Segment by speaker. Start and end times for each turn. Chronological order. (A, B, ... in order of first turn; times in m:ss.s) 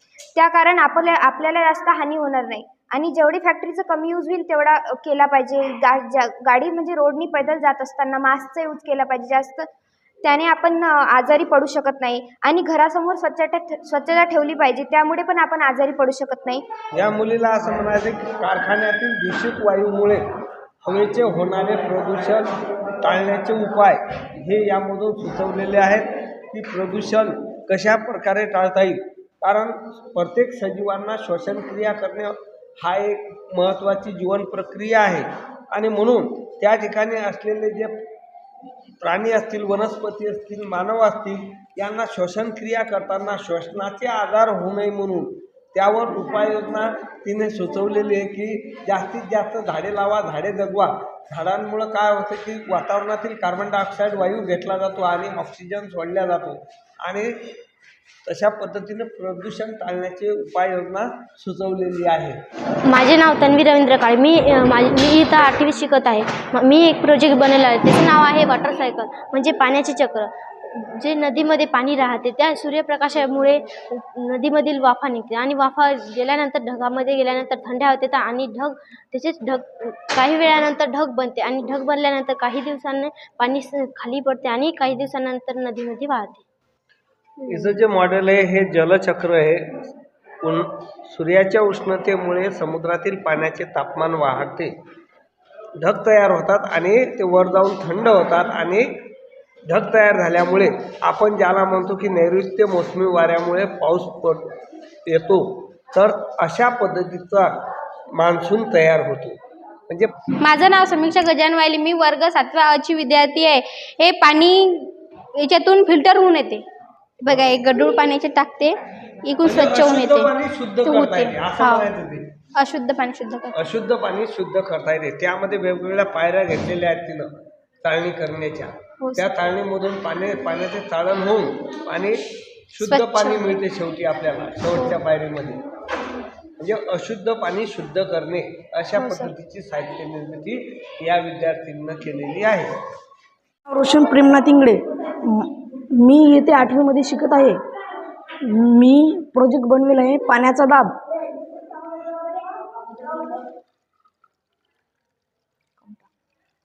0:00.3-0:09.7 A
0:10.2-0:16.6 A
0:16.9-0:20.2 B
0:20.8-0:22.4 B
0:23.0-0:37.9 B
0:39.0-0:57.3 B
0:58.2-1:02.4 B
1:02.9-1:10.3 C
1:11.0-1:26.4 C
1:27.4-1:27.7 C
1:27.5-1:29.6 B
1:30.4-1:34.7 B
1:35.8-1:39.0 B
1:39.7-1:44.5 B
1:45.1-1:47.5 B
1:48.2-1:49.4 B
1:49.9-1:50.1 B
1:50.4-1:56.6 D
1:57.2-2:01.9 D
1:59.4-2:02.3 B
2:02.6-2:03.6 D
2:03.5-2:07.3 B
2:07.8-2:15.6 B
2:09.0-2:09.3 D
2:12.8-2:13.5 D
2:16.6-2:22.7 B
2:19.0-2:19.3 D
2:23.7-2:27.6 E
2:28.4-2:30.9 E